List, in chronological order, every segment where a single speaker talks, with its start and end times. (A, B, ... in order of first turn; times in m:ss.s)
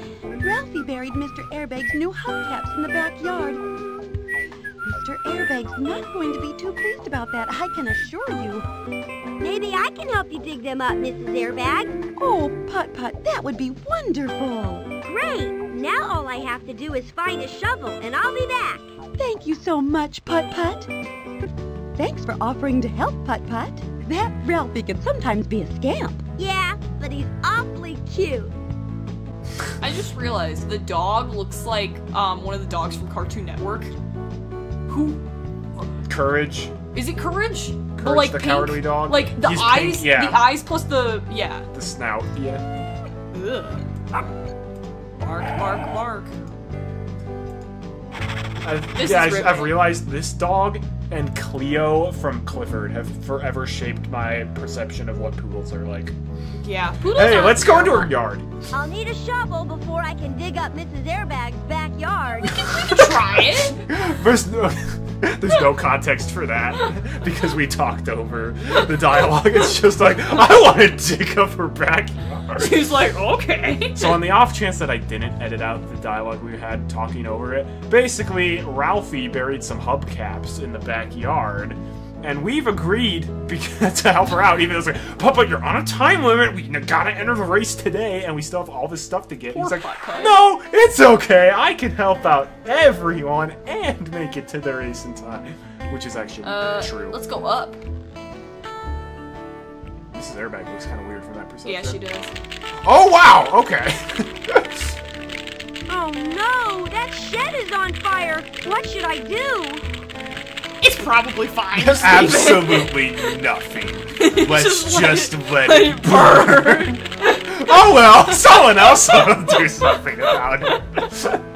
0:00.4-0:03.6 A
0:04.8-0:08.6 A
0:09.4-0:11.9 B
0:12.2-0:14.9 A
0:15.0-0:18.9 B
0:19.2-0:20.9 A
0:22.0-0:26.2 A
0:26.4-0:28.5 B
0:29.8-0:33.9 C
0:34.9-0:35.2 C
0:36.1-0:36.7 D
0:36.9-0:41.7 C
0:38.0-0:40.6 D
0:41.7-0:42.6 D
0:43.3-0:43.9 C
0:45.2-0:46.3 C
0:48.6-0:56.1 D
0:48.9-0:50.0 C
0:56.6-0:58.1 C
0:57.0-0:58.5 D
0:58.7-1:02.7 B
1:02.6-1:03.9 C
1:02.7-1:13.0 D
1:12.6-1:14.3 C
1:14.0-1:37.2 D
1:29.5-1:30.4 C
1:36.4-1:37.8 C
1:40.1-1:42.0 D
1:41.6-1:42.3 C
1:42.8-1:44.7 D
1:45.9-1:49.8 B
1:50.8-1:53.4 C
1:51.7-2:01.4 D
1:54.1-2:01.0 C